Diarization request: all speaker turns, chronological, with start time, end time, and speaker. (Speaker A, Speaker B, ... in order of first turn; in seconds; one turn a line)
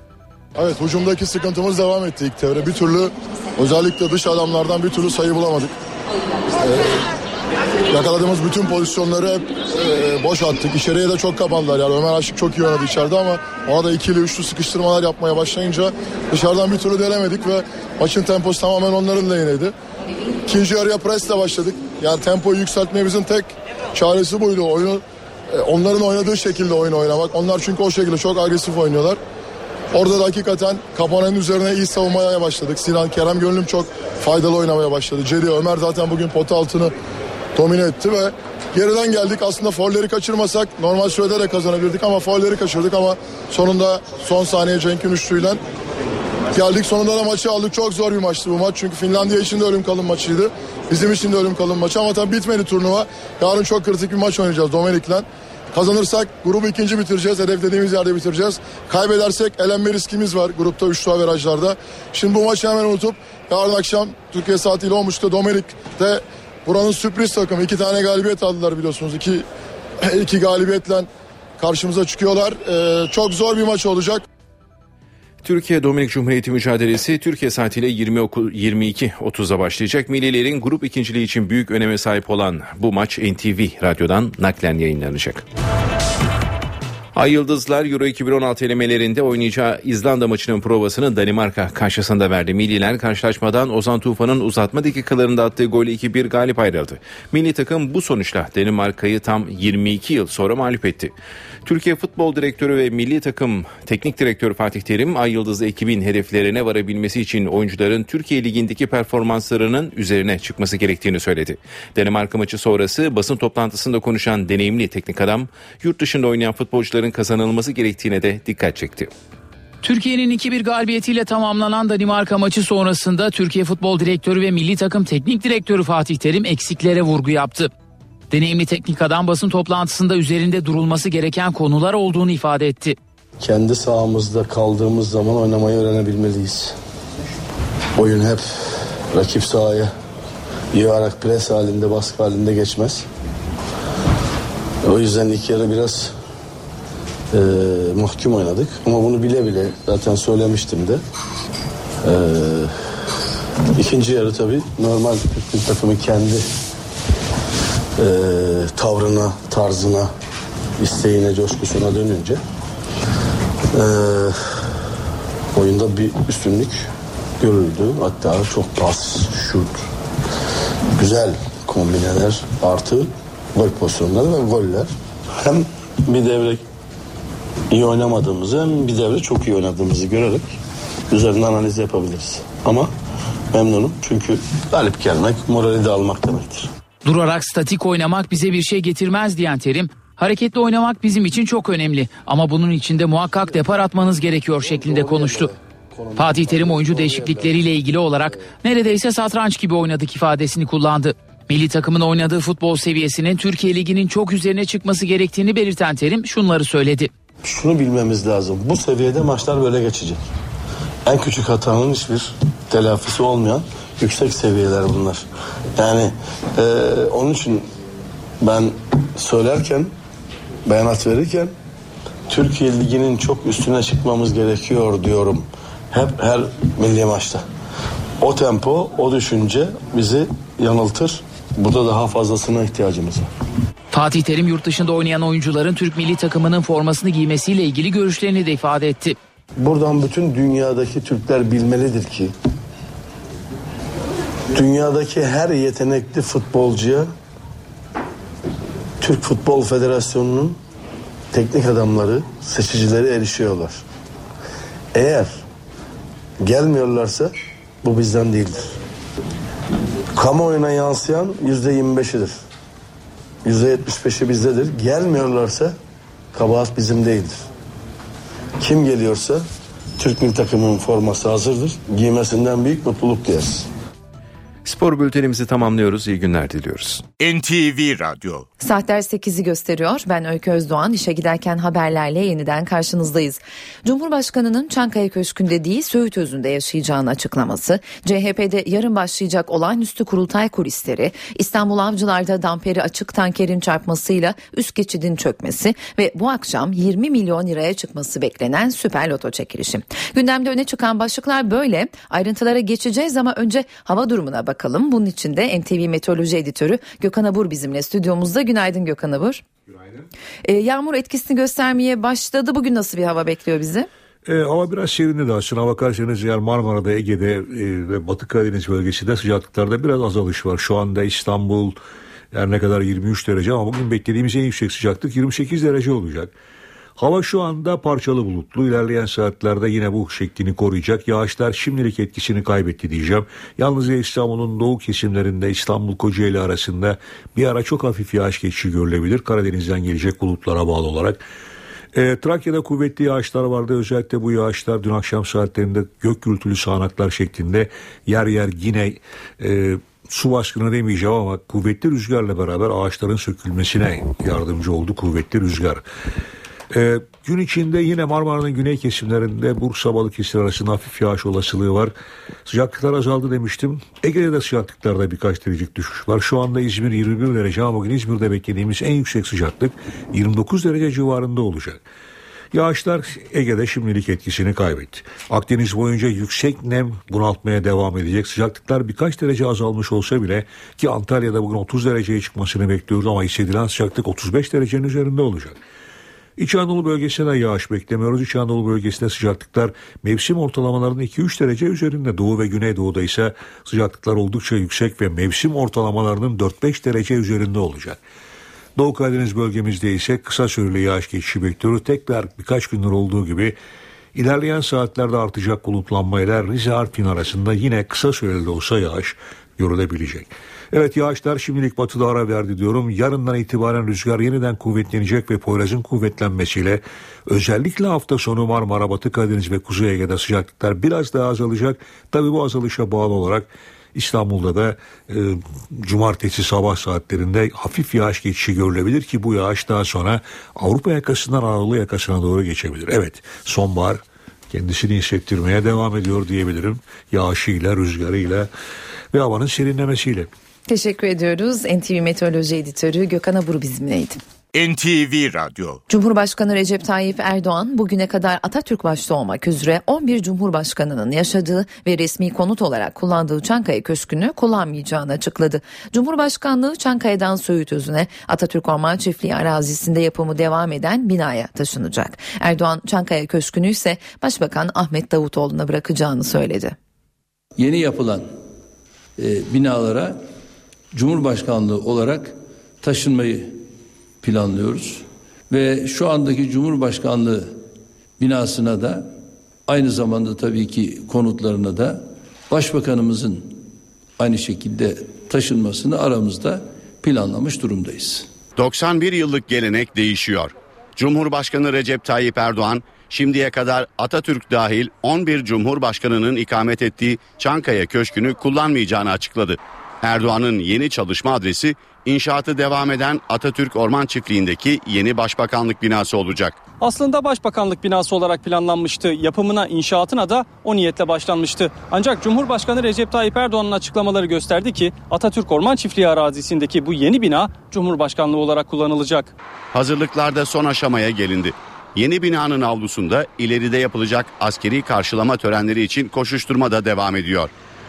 Speaker A: 0.6-5.7
Speaker A: 6.6-6.9
Speaker A: 7.9-19.7
Speaker A: 20.4-25.0
Speaker A: 25.6-29.2
Speaker A: 29.9-36.9
Speaker A: 37.5-45.6
Speaker A: 46.5-69.5
Speaker A: 70.0-71.1
Speaker A: 71.6-74.2
Speaker B: 75.4-85.4
Speaker B: 87.1-119.1
Speaker C: 119.8-127.7
Speaker C: 128.3-132.9
Speaker D: 133.4-136.8
Speaker D: 137.9-138.4
Speaker D: 139.1-139.9
Speaker D: 140.7-143.1
Speaker D: 144.8-146.1
Speaker D: 147.3-151.0
Speaker D: 152.0-152.7
Speaker D: 153.7-156.4
Speaker D: 158.0-160.1
Speaker D: 160.8-162.4
Speaker D: 163.7-164.4
Speaker D: 165.5-166.8
Speaker D: 167.4-169.8
Speaker D: 171.0-174.9
Speaker D: 175.4-176.6
Speaker D: 177.7-180.6
Speaker D: 181.1-182.9
Speaker D: 183.5-186.7
Speaker C: 187.0-195.5
Speaker D: 194.8-195.2
Speaker D: 196.1-196.9
Speaker C: 196.2-207.1
Speaker D: 207.4-210.2
Speaker D: 211.1-215.2
Speaker D: 215.8-217.7
Speaker D: 218.4-219.9
Speaker D: 220.7-221.5
Speaker D: 222.3-227.4
Speaker D: 228.2-233.3
Speaker C: 233.9-239.2
Speaker D: 239.6-242.3
Speaker D: 244.5-247.1
Speaker D: 249.0-250.6
Speaker D: 251.3-253.8
Speaker D: 254.9-255.4
Speaker D: 256.4-257.3
Speaker D: 257.8-258.7
Speaker D: 260.1-262.4
Speaker D: 263.4-265.8
Speaker D: 266.3-267.4
Speaker D: 268.6-269.4
Speaker D: 270.0-273.7
Speaker B: 274.6-277.0
Speaker E: 277.2-278.4
Speaker F: 278.6-309.4
Speaker F: 310.4-313.9
Speaker G: 314.2-321.8
Speaker G: 322.3-326.3
Speaker G: 327.0-341.2
Speaker G: 341.9-355.8
Speaker G: 356.7-361.9
Speaker G: 362.4-371.8
Speaker G: 372.5-385.6
Speaker G: 386.4-398.0
Speaker G: 398.8-403.6
Speaker G: 404.1-438.5
Speaker G: 439.1-440.3
Speaker F: 440.7-444.2
Speaker E: 444.5-445.8
Speaker F: 445.9-466.7
Speaker H: 467.6-468.3
Speaker H: 469.2-470.2
Speaker H: 470.9-473.6
Speaker H: 474.2-477.6
Speaker H: 478.2-479.1
Speaker H: 479.7-483.6
Speaker H: 484.2-488.3
Speaker I: 488.6-506.6
Speaker J: 506.8-519.3
Speaker I: 519.7-527.5